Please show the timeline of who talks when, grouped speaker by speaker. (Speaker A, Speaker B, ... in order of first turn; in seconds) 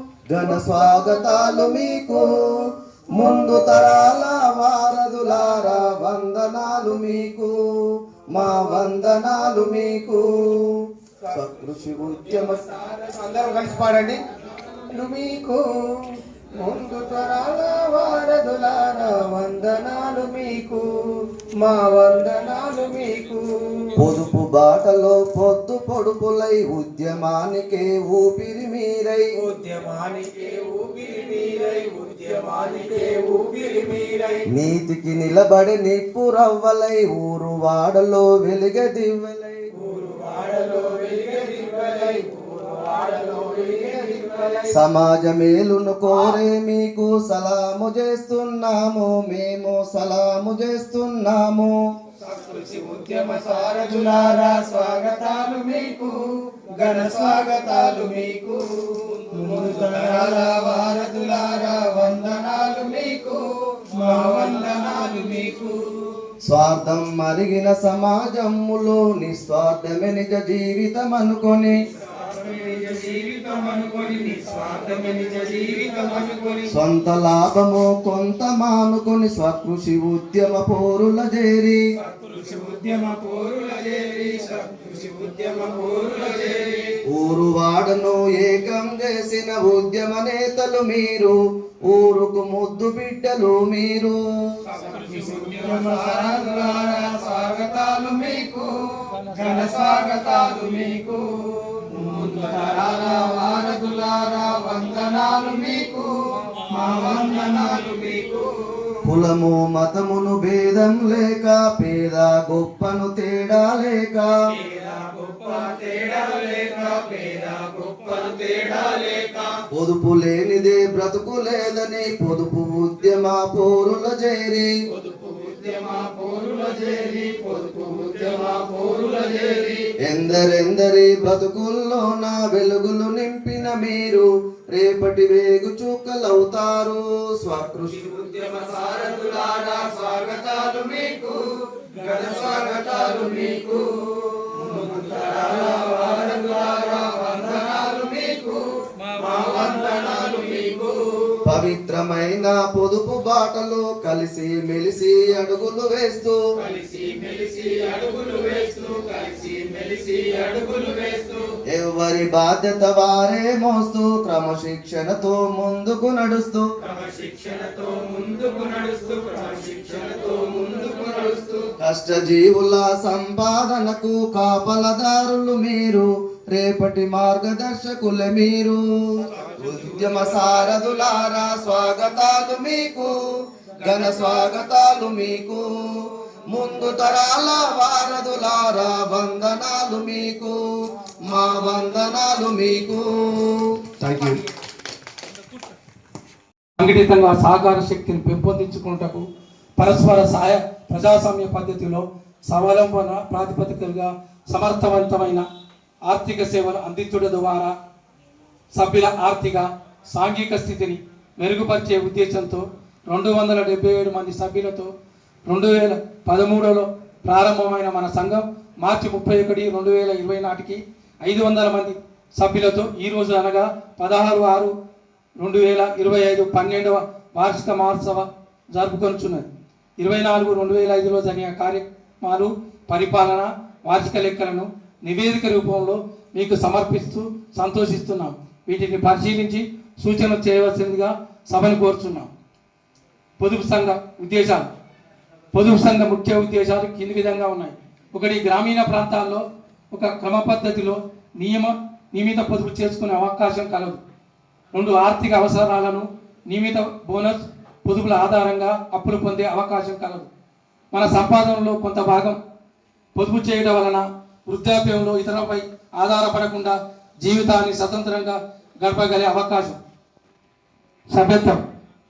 Speaker A: 0.3-7.5, 8.3-10.7, 11.3-12.6, 24.0-29.2, 34.5-39.7, 44.7-51.8, 66.5-71.7, 76.7-81.8, 87.1-91.3, 91.9-94.2, 109.0-114.3, 119.7-124.7, 130.1-138.2, 142.0-142.4, 151.4-156.4, 161.7-166.7, 171.8-178.8, 179.6-183.2, 183.8-185.6, 186.5-190.6, 191.2-193.6
Speaker B: 12.4-14.2, 14.9-23.9, 29.4-34.4, 39.8-44.7, 52.2-66.0, 72.1-76.7, 82.0-87.0, 94.7-109.0, 114.6-119.6, 124.9-129.9, 138.1-151.4, 156.6-161.5, 166.9-171.7
Speaker C: 194.1-194.4, 196.8-205.5, 206.1-207.8, 208.7-214.9, 215.4-224.7, 225.4-229.5, 230.0-242.3, 243.4-244.7, 245.5-254.0, 254.7-260.3, 260.9-262.4, 263.1-269.8, 271.1-271.6